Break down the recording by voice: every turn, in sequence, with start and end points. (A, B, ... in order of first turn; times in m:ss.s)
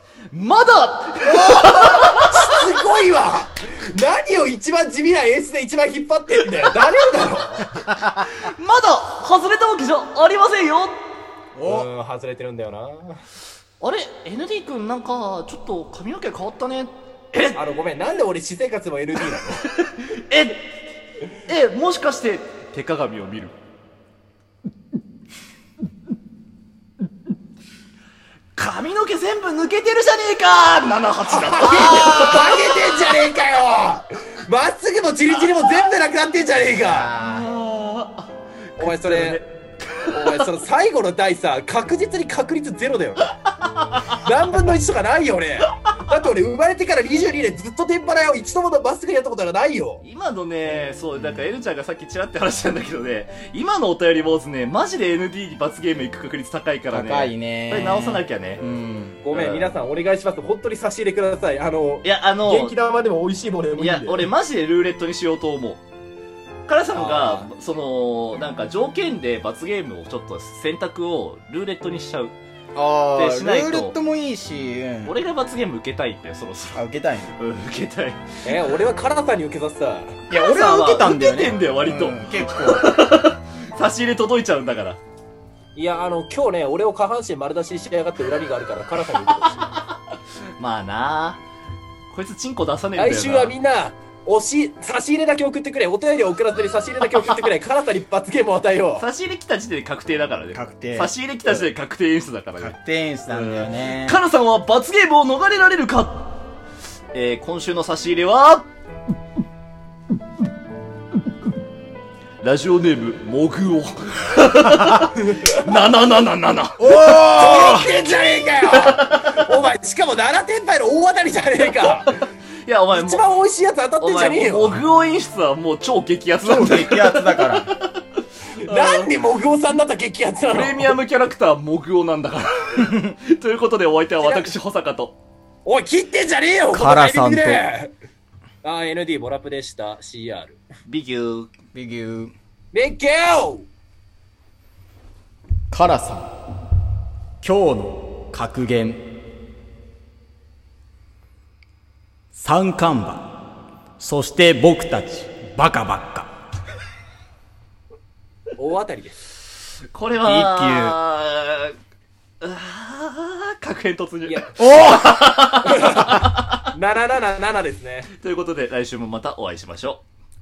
0:00.3-0:02.6 A
0:01.2-0:02.1 B
0:02.1-0:07.8 C
0:08.0-0:10.9 A
0:11.6-0:11.9 B
0:11.6-0:13.2 C
0:13.8-0:17.6 A
0:17.5-0:19.7 C
0:19.8-0:20.6 A
0:21.4-0:23.5 A
0:28.6-0:32.9 A
0:31.3-0:37.1 C
0:36.8-0:37.5 B
0:37.2-0:40.4 A
0:38.8-0:39.4 C
0:40.1-0:43.3 C
0:43.7-0:44.2 A
0:44.2-0:50.0 C
0:50.0-0:58.6 A
0:56.9-0:59.2 B
0:59.2-1:04.3 C
0:59.3-0:59.7 A
1:02.0-1:02.7 A
1:03.8-1:05.8 A
1:06.7-1:12.3 A
1:06.9-1:07.5 C
1:12.7-1:15.1 B
1:13.1-1:14.0 A
1:15.0-1:18.2 A
1:16.7-1:17.3 B
1:18.4-1:20.2 C
1:20.3-1:22.9 B
1:20.3-1:25.0 A
1:25.7-1:29.7 C
1:29.5-1:29.9 A
1:30.6-1:31.4 A
1:32.1-1:33.5 A
1:33.0-1:39.0 C
1:37.1-1:37.4 A
1:39.0-1:42.8 A
1:40.5-1:41.1 B
1:42.6-1:44.2 B
1:43.3-1:46.2 A
1:47.1-1:48.6 A
1:52.4-1:57.7 A
1:55.2-1:55.6 C
1:56.8-1:57.9 B
1:57.1-2:02.2 C
1:58.8-1:59.5 A
2:01.8-2:03.2 A
2:02.9-2:04.8 C
2:04.0-2:08.0 A
2:06.4-2:07.7 B
2:08.6-2:11.0 C
2:08.6-2:09.1 A
2:10.5-2:15.1 A
2:14.2-2:14.6 C
2:15.6-2:17.9 C
2:16.7-2:17.6 B
2:18.6-2:20.6 C
2:20.9-2:21.5 A
2:21.7-2:22.3 B
2:22.7-2:23.6 C
2:25.7-2:26.3 B
2:27.4-2:29.0 B
2:32.3-2:33.3 B
2:34.0-2:36.3 B
2:38.6-2:39.2 C
2:39.9-2:41.7 A
2:40.2-2:41.0 B
2:42.4-2:46.7 A
2:44.2-2:44.6 C
2:44.6-2:45.1 B
2:45.6-2:48.1 C
2:48.2-2:50.0 A